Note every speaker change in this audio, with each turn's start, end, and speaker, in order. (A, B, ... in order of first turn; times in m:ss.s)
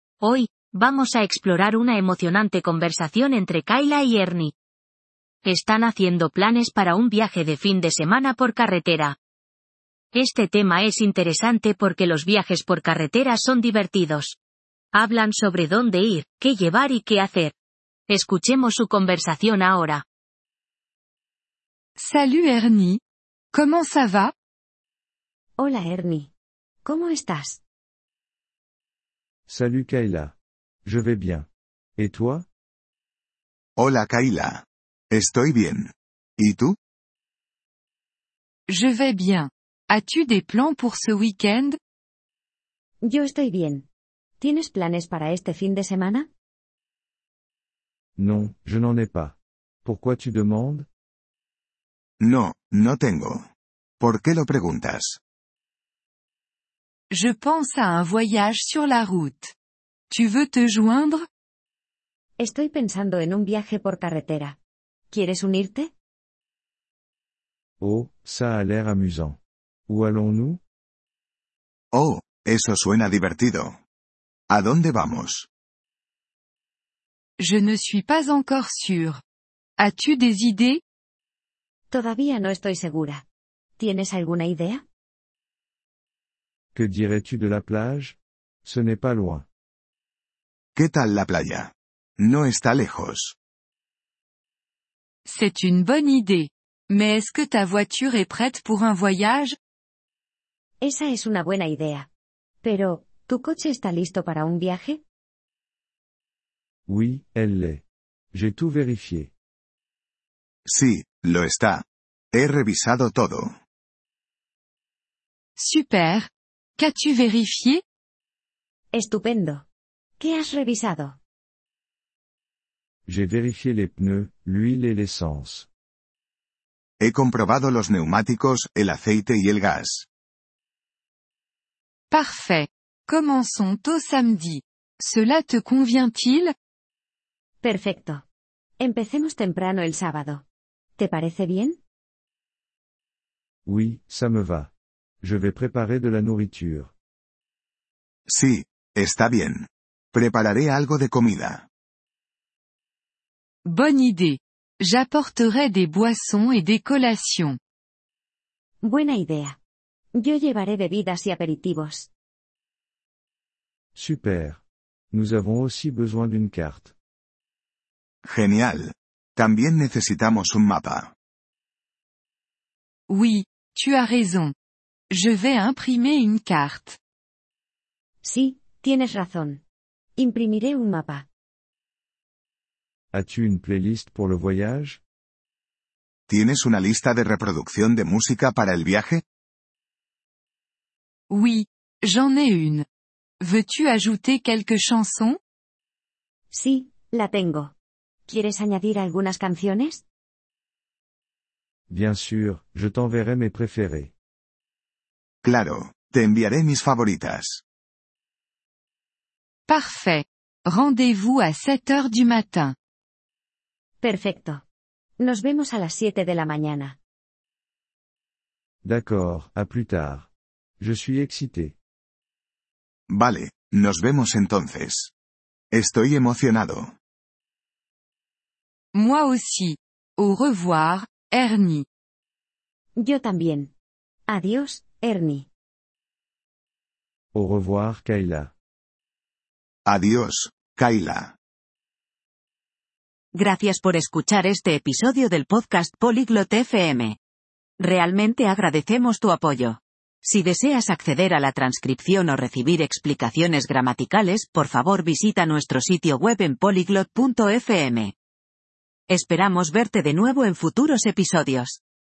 0:00.2-0:04.5 A
0:05.4-0:09.2 A
0:10.1-0:14.4 A
0:14.9-0:17.6 A
0:18.1-0:20.0 A
0:22.0-0:23.0 B
0:23.5-0:24.3 B
0:25.6-0:26.3 C
0:26.8-0:27.6 C
0:29.5-0:32.5 D
0:33.8-0:36.8 E
0:38.7-0:41.8 B
0:43.0-0:43.9 C
0:44.4-0:46.3 C
0:48.2-0:50.9 D
0:52.2-0:53.5 E
0:54.0-0:55.2 E
0:57.1-0:59.5 B
1:00.1-1:01.3 B
1:02.4-1:04.6 C
1:05.1-1:05.9 C
1:07.8-1:10.6 D
1:11.9-1:13.8 E
1:14.5-1:15.5 E
1:17.4-1:19.2 B
1:19.8-1:20.8 B
1:21.9-1:23.2 C
1:23.8-1:24.8 C
1:26.8-1:29.5 D
1:30.8-1:33.4 E
1:35.2-1:39.6 B
1:40.8-1:42.1 C
1:42.6-1:45.0 C
1:46.9-1:49.3 D
1:50.7-1:53.6 E
1:55.6-1:57.8 B
1:58.9-1:59.6 C
2:00.2-2:01.2 C
2:03.1-2:05.7 D
2:07.0-2:10.1 E
2:12.1-2:16.5 B
2:17.6-2:18.2 C
2:18.8-2:20.4 C
2:21.0-2:21.8 C
2:23.6-2:26.9 D
2:28.3-2:31.7 E
2:33.6-2:37.6 B
2:38.8-2:39.6 C
2:40.2-2:42.1 C
2:44.0-2:47.0 D
2:48.2-2:51.1 E
2:53.1-2:54.5 B
2:55.1-2:57.0 B
2:58.2-2:59.6 C
3:00.2-3:01.3 C
3:03.1-3:05.0 D
3:06.3-3:09.2 E
3:11.3-3:12.9 B
3:13.4-3:15.4 B
3:16.5-3:17.7 C
3:18.3-3:20.0 C
3:21.9-3:24.1 D
3:25.4-3:27.6 E
3:29.7-3:32.8 B
3:34.0-3:34.6 C
3:35.2-3:37.0 C
3:38.8-3:41.8 D
3:43.1-3:45.1 E
3:45.7-3:47.0 E
3:48.9-3:51.9 B
3:53.0-3:53.7 C
3:54.3-3:55.5 C
3:57.3-3:58.5 D
3:59.9-4:01.4 E
4:03.3-4:07.2 F
4:07.8-4:18.1 F
4:19.1-4:21.8 F